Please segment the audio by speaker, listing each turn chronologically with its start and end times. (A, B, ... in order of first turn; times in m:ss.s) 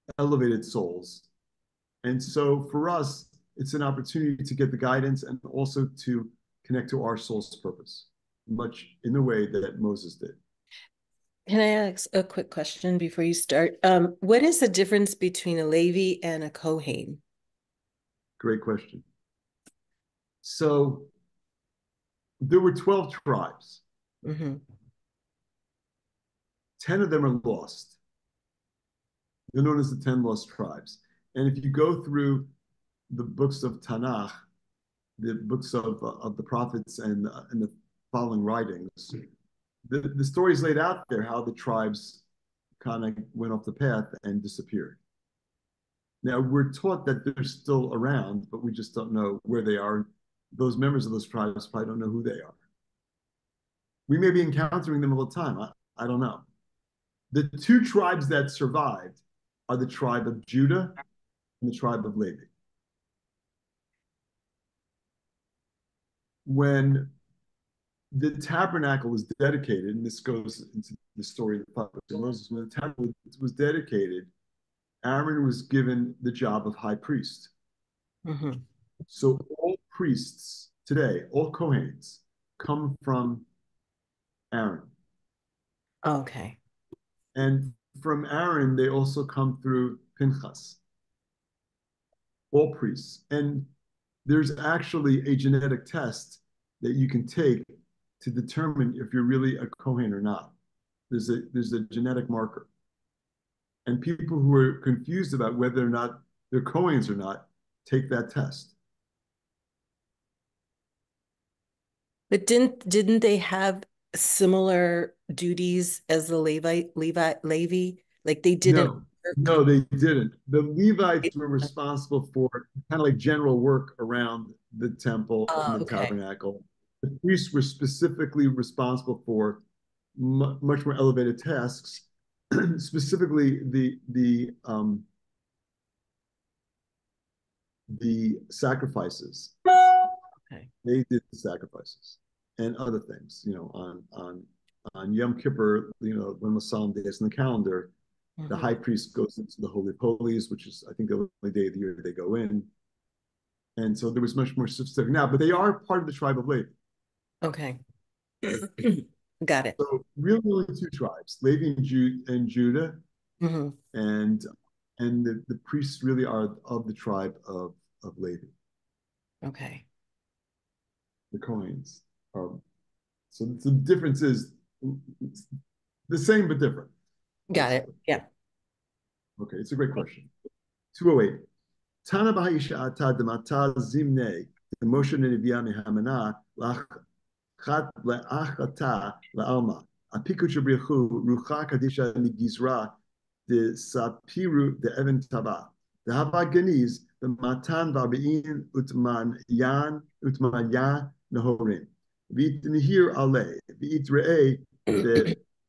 0:00.2-0:01.2 A
0:02.0-0:10.4 A
0:11.5-0:17.2 B
0:18.4-0:19.0 A
0:20.4-0:21.1 A
0:22.4-0:23.8 A
0:24.2-0:24.6 B
0:26.8-0:28.0 A
0:29.5-0:32.5 A
0:33.1-0:34.3 A
0:35.2-0:39.3 A
0:39.8-0:42.2 A
0:42.8-0:45.0 A
0:46.2-0:52.6 A
0:54.1-0:56.4 A
0:57.3-1:01.0 A
1:01.6-1:02.5 A
1:06.4-1:07.1 A
1:08.1-1:14.3 A
1:15.0-1:17.5 A
1:18.2-1:18.6 B
1:19.1-1:23.4 A
1:24.5-1:24.9 A
1:26.0-1:26.6 B
1:27.3-1:30.8 A
1:32.5-1:33.7 A
1:34.2-1:40.5 A
1:41.1-1:42.7 A
1:43.8-1:48.7 A
1:52.3-1:59.5 B
1:58.6-2:09.6 A
2:05.5-2:06.1 B
2:10.2-2:15.0 A
2:17.9-2:19.6 A
2:20.8-2:27.9 A
2:28.4-2:28.7 B
2:28.5-2:32.7 A
2:33.8-2:36.7 A
2:37.4-2:37.8 B
2:38.4-2:39.8 B
2:39.8-2:43.0 A
2:43.4-2:43.8 B
2:43.9-2:44.5 A
2:45.0-2:48.5 A
2:49.4-2:49.8 B
2:51.3-2:52.6 A
2:53.3-2:55.5 A
2:56.1-2:56.9 A
2:57.5-2:58.2 B
2:57.5-2:57.9 A
2:59.4-3:00.3 A
3:00.9-3:01.4 A
3:02.0-3:07.0 A
3:07.6-3:12.9 A
3:13.5-3:25.4 A